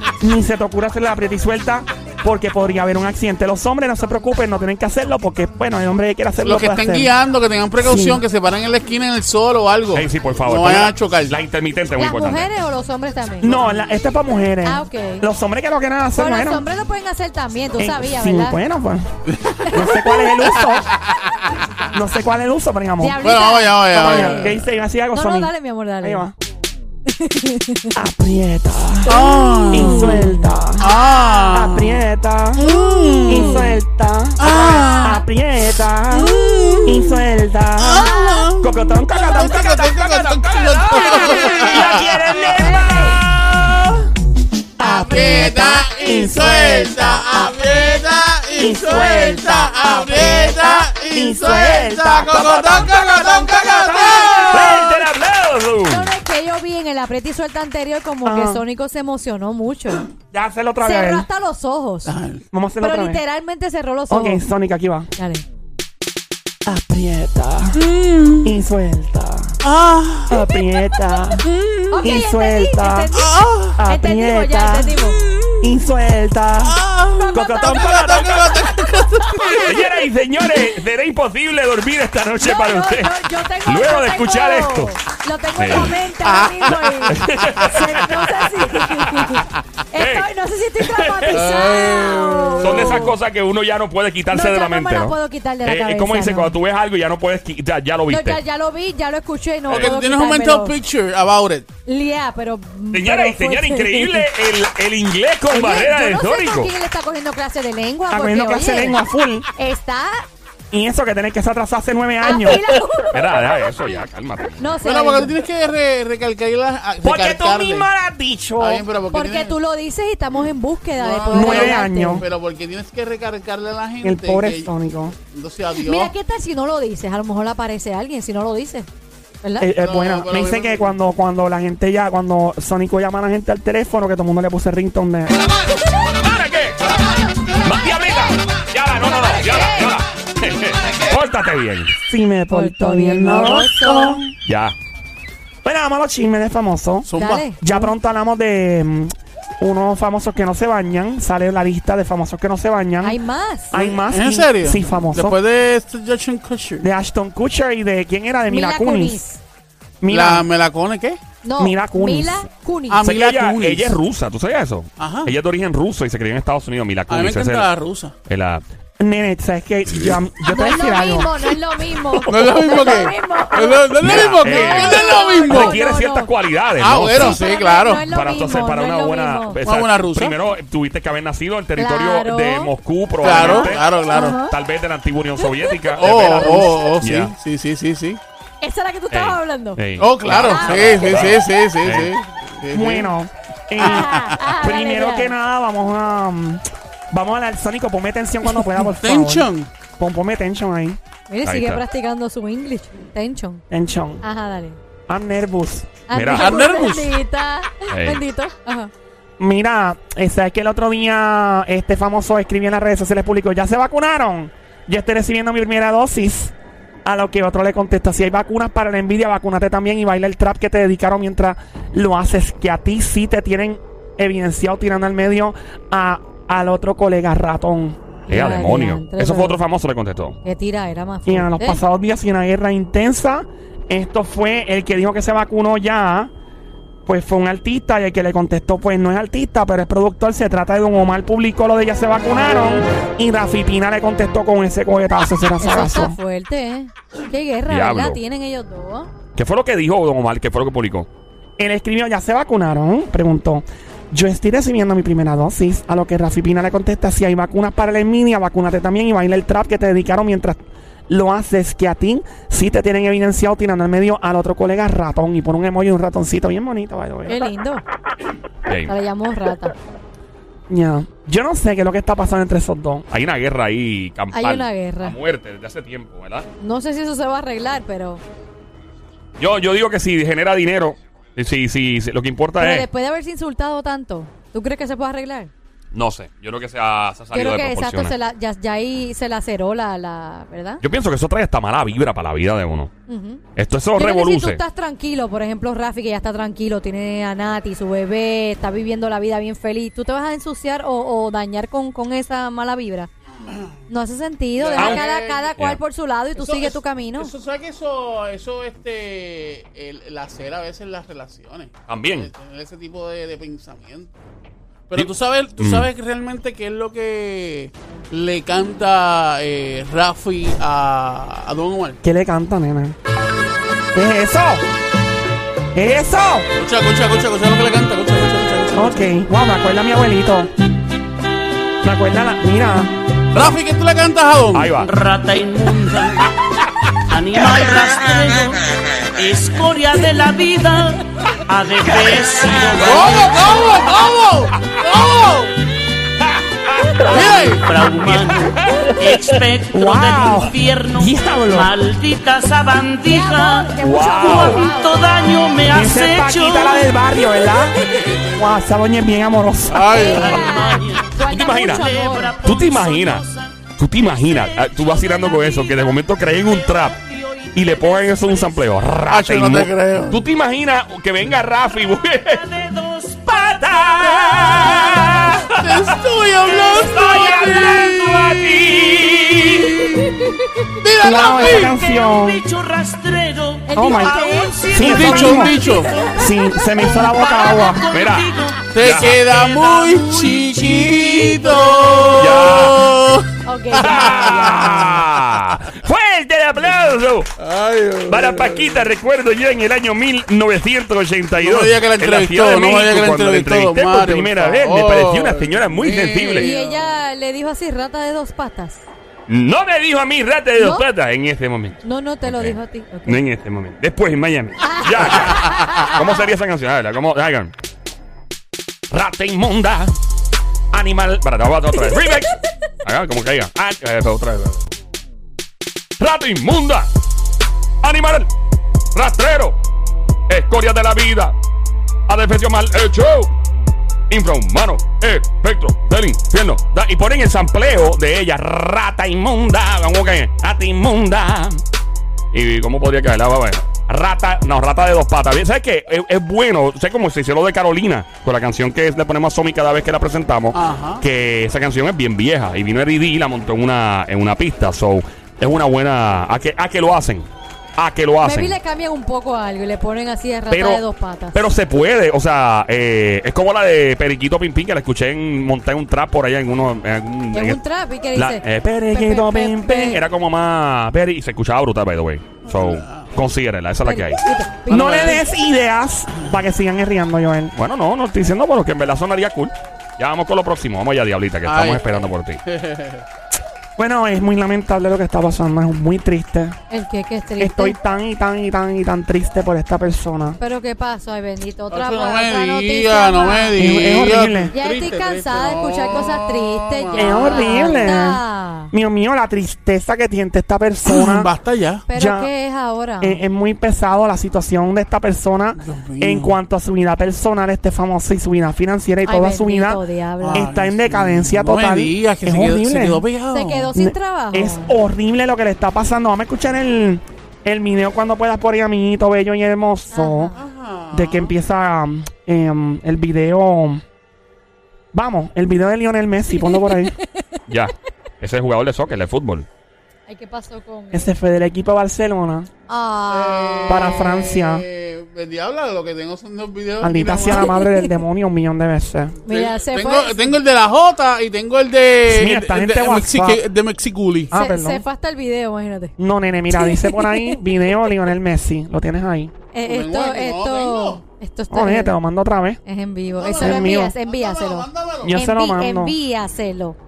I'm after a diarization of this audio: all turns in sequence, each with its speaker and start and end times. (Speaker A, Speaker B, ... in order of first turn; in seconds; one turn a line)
Speaker A: 0.2-7.1
Speaker B: 6.4-11.4
Speaker A: 7.8-8.2
Speaker C: 9.9-12.5
Speaker D: 12.0-13.6
Speaker A: 13.4-16.6
Speaker D: 14.6-15.2
Speaker D: 16.1-18.6
Speaker A: 17.8-19.1
Speaker B: 19.3-21.2
Speaker A: 19.7-20.9
Speaker A: 21.9-23.2
Speaker D: 23.0-24.6
Speaker B: 23.2-24.6
Speaker A: 23.9-25.5
Speaker D: 25.1-26.2
Speaker A: 26.0-26.3
Speaker D: 27.1-27.9
Speaker A: 27.9-30.9
Speaker B: 29.1-32.0
Speaker D: 29.5-31.7
Speaker A: 31.5-32.7
Speaker B: 32.5-33.8
Speaker D: 32.7-33.8
Speaker A: 33.3-43.9
Speaker B: 34.4-35.2
Speaker D: 34.5-35.2
Speaker B: 36.1-37.2
Speaker B: 37.8-42.8
Speaker D: 38.0-38.4
Speaker A: 44.8-47.6
Speaker B: 44.8-55.0
Speaker A: 48.5-54.9
Speaker C: 54.5-56.1
Speaker D: 55.9-60.0
Speaker A: 58.2-58.6
Speaker A: 60.3-61.2
Speaker D: 60.8-62.1
Speaker B: 62.0-62.4
Speaker A: 62.5-63.2
Speaker D: 62.8-64.4
Speaker A: 64.1-65.1
Speaker D: 65.2-65.4
Speaker A: 66.7-67.8
Speaker B: 67.7-68.5
Speaker A: 68.4-69.6
Speaker B: 69.6-70.4
Speaker A: 70.3-71.4
Speaker B: 71.4-72.2
Speaker D: 71.9-73.3
Speaker A: 72.0-73.1
Speaker B: 73.1-73.8
Speaker A: 73.8-74.9
Speaker D: 73.9-75.2
Speaker B: 75.3-75.6
Speaker A: 75.6-76.8
Speaker B: 76.6-79.8
Speaker D: 77.2-79.6
Speaker A: 77.3-78.4
Speaker C: 79.7-84.9
Speaker D: 82.4-93.1
Speaker C: 85.6-86.0
Speaker B: 85.7-87.2
Speaker C: 87.1-89.4
Speaker C: 89.9-91.7
Speaker B: 91.3-93.1
Speaker C: 92.6-98.4
Speaker D: 94.3-96.6
Speaker D: 98.1-100.8
Speaker B: 99.7-101.7
Speaker D: 101.8-104.3
Speaker C: 102.9-106.7
Speaker D: 105.5-109.0
Speaker A: 108.1-109.5
Speaker D: 109.6-110.2
Speaker A: 110.7-112.6
Speaker D: 112.2-113.3
Speaker C: 113.1-114.7
Speaker D: 114.6-115.3
Speaker B: 114.8-117.9
Speaker A: 117.0-118.8
Speaker B: 118.6-119.5
Speaker D: 119.1-122.2
Speaker B: 121.0-124.7
Speaker A: 121.3-122.2
Speaker A: 124.0-125.2
Speaker B: 125.3-126.1
Speaker D: 125.8-128.9
Speaker D: 129.4-129.7
Speaker A: 129.6-135.4
Speaker B: 129.8-130.9
Speaker C: 136.0-137.0
Speaker C: 137.6-141.9
Speaker D: 139.0-139.9
Speaker A: 142.1-144.3
Speaker D: 142.5-144.2
Speaker C: 144.4-144.8
Speaker A: 145.6-147.1
Speaker B: 147.1-147.5
Speaker D: 147.1-147.8
Speaker A: 147.6-153.2
Speaker D: 153.0-153.7
Speaker A: 153.7-155.4
Speaker B: 153.7-156.9
Speaker A: 156.8-159.2
Speaker D: 158.5-159.4
Speaker A: 160.0-160.5
Speaker B: 160.1-161.2
Speaker D: 161.4-163.0
Speaker A: 161.6-162.4
Speaker B: 162.9-163.9
Speaker C: 163.0-167.7
Speaker B: 165.0-165.3
Speaker B: 167.1-168.1
Speaker C: 168.2-168.6
Speaker A: 169.0-171.3
Speaker D: 170.4-176.3
Speaker B: 172.3-175.8
Speaker C: 174.0-177.4
Speaker B: 176.8-178.1
Speaker D: 177.1-179.6
Speaker C: 178.0-187.3
Speaker B: 179.6-180.4
Speaker D: 181.8-182.7
Speaker B: 183.2-184.4
Speaker D: 183.3-184.5
Speaker D: 185.4-185.9
Speaker B: 186.0-188.2
Speaker D: 188.6-191.2
Speaker C: 189.1-192.1
Speaker B: 190.0-193.1
Speaker A: 192.7-201.0
Speaker B: 193.8-194.4
Speaker D: 193.8-195.3
Speaker B: 198.5-199.7
Speaker D: 201.3-203.6
Speaker C: 201.4-201.8
Speaker A: 203.7-204.2
Speaker D: 204.2-204.8
Speaker A: 205.1-205.9
Speaker D: 206.1-208.9
Speaker C: 206.1-206.6
Speaker B: 206.3-207.1
Speaker C: 207.9-208.2
Speaker A: 209.4-216.5
Speaker A: 217.1-228.0
Speaker D: 228.3-229.6
Speaker C: 228.3-230.4
Speaker D: 230.4-231.8
Speaker A: 231.3-236.3
Speaker A: 237.1-246.2
Speaker D: 245.6-249.1
Speaker C: 247.7-248.2
Speaker C: 249.3-251.1
Speaker A: 251.6-267.4
Speaker D: 267.3-267.8
Speaker C: 268.6-268.9
Speaker D: 268.9-269.7
Speaker A: 270.7-273.1
Speaker C: 273.1-276.5
Speaker D: 274.3-275.2
Speaker D: 276.6-278.2
Speaker C: 279.4-282.9
Speaker D: 282.6-285.5
Speaker C: 285.9-288.1
Speaker D: 287.3-290.8
Speaker C: 290.8-292.9
Speaker D: 293.1-293.4
Speaker C: 293.6-294.6
Speaker D: 293.9-303.1
Speaker B: 303.5-303.7
Speaker D: 303.9-307.3
Speaker B: 304.6-305.5
Speaker C: 304.7-305.0
Speaker B: 306.4-314.1
Speaker C: 311.9-312.3
Speaker B: 314.9-322.0
Speaker C: 314.9-315.9
Speaker A: 322.0-322.9
Speaker A: 323.9-324.6
Speaker A: 325.7-326.5
Speaker B: 326.6-329.1
Speaker A: 328.8-330.5
Speaker A: 331.8-332.9
Speaker B: 333.3-334.8
Speaker C: 334.5-334.9
Speaker E: 334.8-336.3
Speaker E: 337.1-338.6
Speaker E: 339.1-343.9
Speaker B: 342.7-345.5
Speaker C: 346.7-347.3
Speaker E: 347.1-356.9
Speaker B: 347.1-347.7
Speaker C: 348.1-348.9
Speaker A: 349.7-351.7
Speaker D: 353.0-355.0
Speaker C: 353.8-354.6
Speaker A: 355.7-357.8
Speaker A: 358.4-360.0
Speaker B: 359.7-360.5
Speaker D: 359.9-362.4
Speaker E: 360.0-368.7
Speaker C: 361.3-361.9
Speaker C: 362.4-363.2
Speaker C: 363.8-367.0
Speaker C: 367.5-372.4
Speaker B: 369.1-370.2
Speaker E: 372.2-375.4
Speaker C: 373.3-376.0
Speaker B: 375.5-380.2
Speaker D: 376.7-377.5
Speaker C: 376.8-380.0
Speaker D: 380.0-380.4
Speaker B: 380.8-381.7
Speaker A: 381.0-382.4
Speaker E: 381.2-386.1
Speaker D: 383.7-386.1
Speaker A: 383.7-385.6
Speaker B: 384.8-385.9
Speaker A: 386.1-387.9
Speaker E: 386.8-392.2
Speaker C: 387.9-389.2
Speaker B: 388.7-395.2
Speaker C: 392.2-392.9
Speaker D: 393.4-394.6
Speaker C: 393.8-397.3
Speaker B: 397.4-398.8
Speaker C: 398.1-406.5
Speaker B: 401.4-406.9
Speaker D: 406.4-408.9
Speaker C: 409.3-417.5
Speaker D: 410.6-410.9
Speaker D: 411.8-413.2
Speaker D: 414.6-416.1
Speaker C: 418.9-419.9
Speaker C: 420.7-424.7
Speaker D: 421.9-422.2
Speaker C: 426.0-426.9
Speaker C: 427.8-428.3
Speaker C: 428.9-429.6
Speaker C: 430.3-431.4
Speaker C: 432.1-433.3
Speaker C: 434.1-441.6
Speaker C: 442.3-458.6
Speaker B: 450.5-451.0
Speaker D: 458.2-461.5
Speaker C: 460.5-460.8
Speaker C: 461.3-467.6
Speaker D: 467.3-470.0
Speaker C: 468.1-468.8
Speaker A: 468.6-469.8
Speaker C: 469.6-475.2
Speaker B: 472.4-473.1
Speaker D: 473.8-475.2
Speaker A: 474.7-477.5
Speaker B: 474.7-475.1
Speaker C: 477.5-482.4
Speaker B: 481.4-483.0
Speaker A: 483.8-486.6
Speaker D: 486.7-487.8
Speaker A: 487.4-490.4
Speaker D: 490.4-493.8
Speaker B: 491.7-497.9
Speaker A: 493.6-494.5
Speaker D: 494.5-498.7
Speaker A: 496.9-498.2
Speaker A: 498.7-501.3
Speaker B: 500.9-501.9
Speaker D: 501.9-503.2
Speaker A: 501.9-502.3
Speaker A: 503.0-509.8
Speaker B: 505.6-506.3
Speaker D: 509.0-510.5
Speaker B: 510.2-513.7
Speaker A: 510.3-513.0
Speaker D: 513.3-514.7
Speaker A: 513.8-520.3
Speaker D: 519.9-520.3
Speaker B: 520.3-521.3
Speaker A: 520.9-523.8
Speaker A: 524.9-526.9
Speaker D: 526.3-527.2
Speaker C: 527.5-529.5
Speaker D: 530.1-531.1
Speaker A: 530.9-532.5
Speaker D: 532.7-534.0
Speaker B: 533.1-537.5
Speaker A: 533.7-534.6
Speaker A: 536.8-539.1
Speaker D: 537.3-537.9
Speaker B: 539.2-544.3
Speaker D: 539.2-540.4
Speaker A: 542.1-543.4
Speaker A: 544.3-544.8
Speaker D: 544.3-545.9
Speaker A: 546.0-549.3
Speaker D: 546.5-547.4
Speaker D: 549.5-552.0
Speaker B: 549.6-551.0
Speaker A: 551.5-552.6
Speaker D: 552.6-556.8
Speaker B: 553.2-555.2
Speaker A: 553.4-553.9
Speaker A: 555.0-555.9